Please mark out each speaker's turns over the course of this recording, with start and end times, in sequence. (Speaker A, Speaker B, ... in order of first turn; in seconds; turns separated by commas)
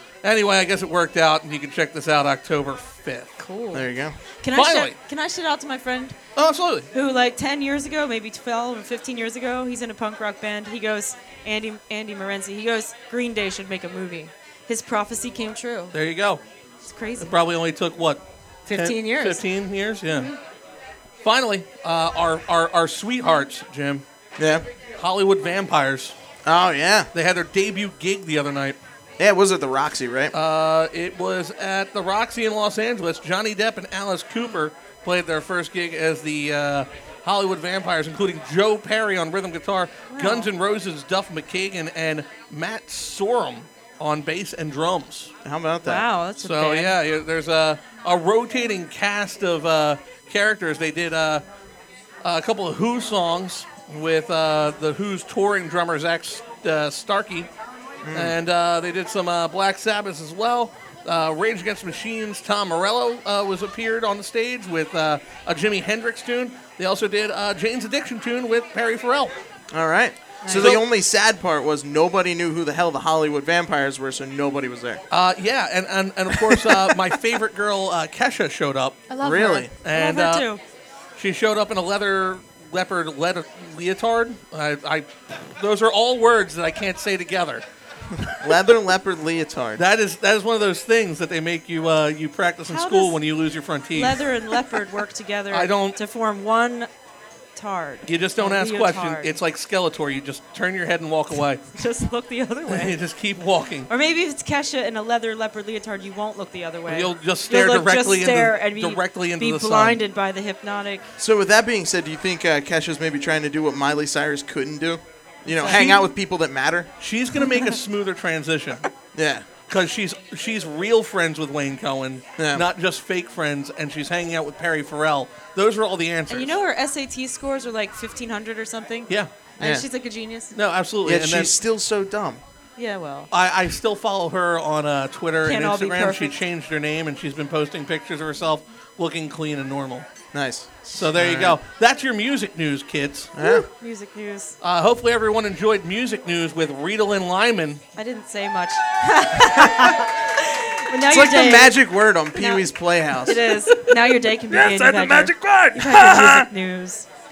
Speaker A: 0.2-3.4, Speaker B: 3.4-3.9, Speaker C: 3.7-4.1, Speaker B: 4.4-6.2, Speaker A: 4.5-5.0, Speaker A: 6.3-6.9, Speaker B: 6.9-15.9, Speaker A: 15.9-16.4, Speaker B: 16.8-17.3, Speaker A: 17.2-20.3, Speaker B: 18.7-19.4, Speaker B: 20.1-20.4, Speaker A: 21.2-24.0, Speaker C: 24.4-24.6, Speaker A: 25.0-26.1, Speaker C: 26.4-27.1, Speaker A: 27.1-28.8, Speaker C: 29.2-30.3, Speaker A: 30.3-45.3, Speaker B: 40.1-40.5, Speaker C: 45.4-46.0, Speaker B: 45.8-47.0, Speaker A: 46.4-51.4, Speaker A: 52.2-57.5, Speaker C: 58.0-58.3, Speaker A: 58.1-69.3, Speaker C: 69.7-75.0, Speaker B: 70.4-70.8, Speaker A: 70.5-70.8, Speaker A: 75.1-79.0, Speaker C: 76.6-76.8, Speaker B: 79.1-80.6, Speaker C: 79.2-79.7, Speaker A: 79.8-80.4, Speaker A: 81.2-87.6, Speaker C: 88.3-89.8, Speaker A: 89.8-94.8, Speaker B: 92.7-93.2, Speaker B: 93.9-96.9, Speaker A: 95.5-96.0, Speaker B: 97.5-99.4, Speaker A: 98.1-101.6, Speaker B: 101.7-103.0, Speaker A: 102.7-103.9, Speaker B: 103.9-111.1, Speaker A: 106.8-110.0, Speaker C: 111.2-116.9, Speaker B: 115.4-115.8, Speaker A: 115.6-116.1, Speaker A: 117.0-118.9, Speaker C: 119.1-119.5, Speaker A: 119.7-126.6, Speaker C: 122.4-122.6, Speaker B: 126.3-130.5, Speaker C: 129.6-129.8, Speaker A: 130.5-131.6, Speaker C: 131.0-132.4, Speaker B: 132.8-133.3, Speaker A: 133.3-140.1, Speaker B: 135.4-136.4, Speaker C: 140.3-141.6, Speaker A: 140.9-143.3, Speaker C: 143.3-143.7, Speaker B: 143.4-144.6, Speaker A: 144.6-147.8, Speaker B: 147.9-151.8, Speaker C: 151.1-153.4, Speaker B: 152.3-157.1, Speaker A: 153.7-154.0, Speaker A: 154.5-156.5